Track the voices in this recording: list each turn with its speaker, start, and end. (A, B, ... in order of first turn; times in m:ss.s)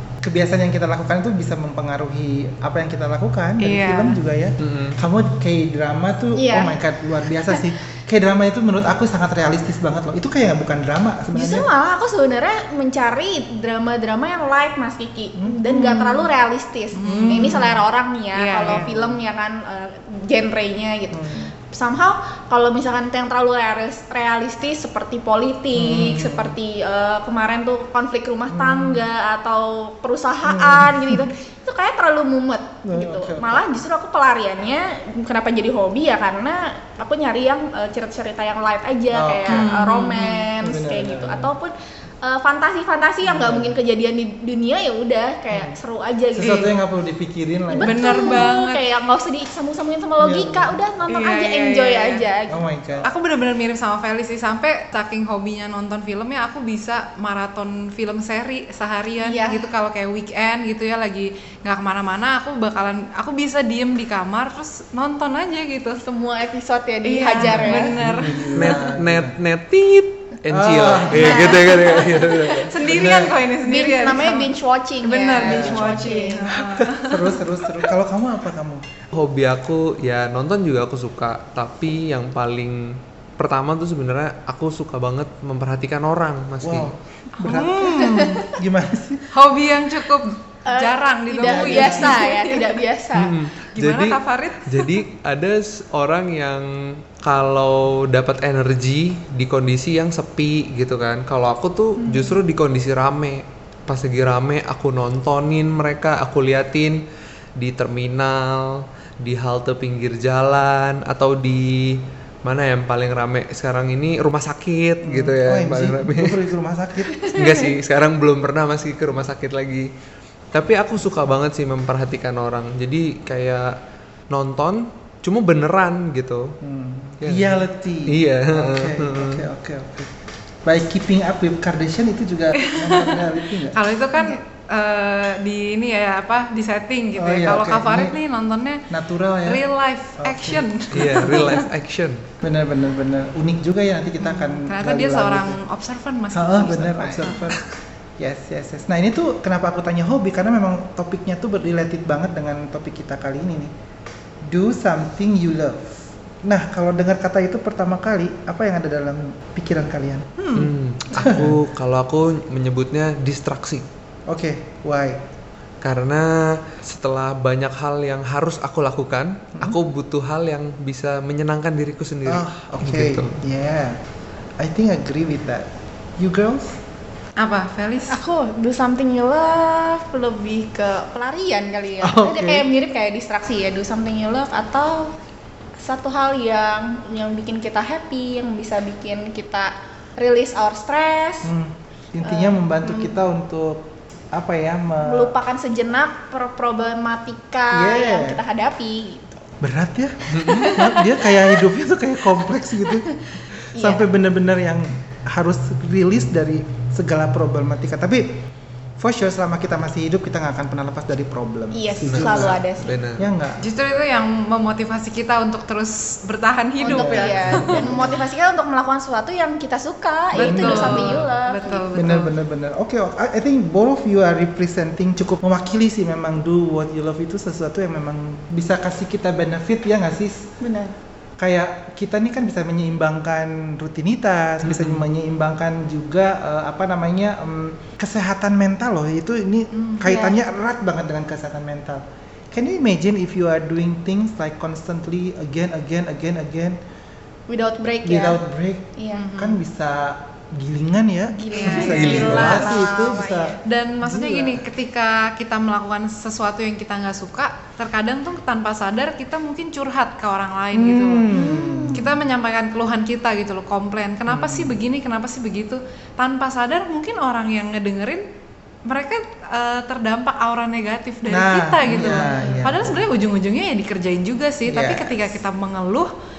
0:00.2-0:11.7 A
0:03.6-0:04.2 B
0:04.6-0:05.0 C
0:06.3-0:06.8 D
0:11.3-0:46.7 D
0:15.4-0:15.6 A
0:15.7-0:16.3 B
0:16.9-0:17.8 B
0:17.0-0:17.7 A
0:18.3-0:18.9 B
0:18.7-0:19.2 A
0:21.1-0:21.5 A
0:25.7-0:26.6 A
0:28.5-0:29.0 A
0:30.4-0:31.2 A
0:32.8-0:33.8 A
0:39.1-0:39.7 A
0:39.5-0:40.5 B
0:40.6-0:41.5 A
0:43.2-0:43.7 A
0:45.5-0:45.8 A
0:46.4-0:48.5 A
0:46.4-0:46.7 B
0:47.7-0:52.6 D
0:47.8-0:48.8 B
0:50.2-0:50.8 A
0:51.1-0:52.2 B
0:52.5-0:53.1 A
0:53.0-1:06.0 B
0:59.2-0:59.7 D
1:06.0-1:07.9 D
1:07.0-1:08.8 B
1:07.4-1:09.3 A
1:08.6-1:12.9 C
1:10.5-1:11.5 A
1:11.2-1:14.5 B
1:11.2-1:11.5 D
1:12.8-1:13.4 A
1:13.6-1:16.5 D
1:15.0-1:17.4 B
1:15.4-1:16.0 A
1:16.6-1:18.8 A
1:19.1-1:26.9 C
1:26.6-1:29.3 A
1:27.4-1:28.5 B
1:27.9-1:28.5 D
1:29.3-1:32.8 B
1:30.6-1:33.4 D
1:31.4-1:32.2 A
1:33.1-1:47.0 C
1:33.6-1:35.0 B
1:42.0-1:42.4 D
1:47.6-1:56.4 C
1:55.0-1:57.3 A
1:57.3-1:59.9 C
2:00.5-2:03.8 C
2:04.3-2:06.6 C
2:06.6-2:13.8 A
2:07.2-2:09.4 C
2:12.6-2:18.8 B
2:17.2-2:18.2 A
2:18.9-2:19.6 A
2:19.4-2:21.6 B
2:20.2-2:21.4 A
2:20.9-2:22.2 C
2:22.4-2:25.6 A
2:24.2-2:27.5 B
2:26.3-2:27.6 A
2:28.2-2:33.7 A
2:34.4-2:41.6 A
2:40.5-2:43.9 C
2:44.3-2:45.2 A
2:45.8-2:53.3 C
2:52.2-2:54.0 A
2:54.6-2:56.8 A
2:57.4-2:58.2 B
2:58.1-3:05.1 D
3:02.0-3:02.7 A
3:05.8-3:11.5 D
3:11.4-3:15.3 A
3:12.2-3:13.2 D
3:15.0-3:19.4 D
3:17.7-3:18.4 A
3:19.6-3:23.1 A
3:20.3-3:21.6 D
3:20.3-3:20.7 C
3:23.7-3:24.0 D
3:23.8-3:28.4 A
3:29.0-3:32.6 A
3:31.7-3:33.0 D
3:32.0-3:33.3 C
3:33.2-3:33.6 A
3:33.6-3:38.1 B
3:36.8-3:41.9 D
3:36.8-3:38.2 A
3:40.3-3:41.3 A
3:40.3-3:42.3 B
3:41.9-3:50.5 A
3:50.6-3:50.9 D
3:51.4-4:06.8 A
3:54.6-3:55.0 C
4:00.0-4:00.4 D
4:07.5-4:08.4 D
4:08.0-4:14.6 A
4:09.0-4:09.3 D
4:09.1-4:09.6 B
4:11.3-4:13.6 D
4:11.5-4:13.1 B
4:11.8-4:12.7 C
4:13.6-4:21.4 B
4:20.7-4:22.1 A
4:21.3-4:22.1 D
4:21.9-4:28.2 B
4:24.3-4:24.8 A
4:28.8-4:36.1 B
4:31.3-4:33.0 A
4:32.0-4:32.6 D
4:34.6-4:35.4 A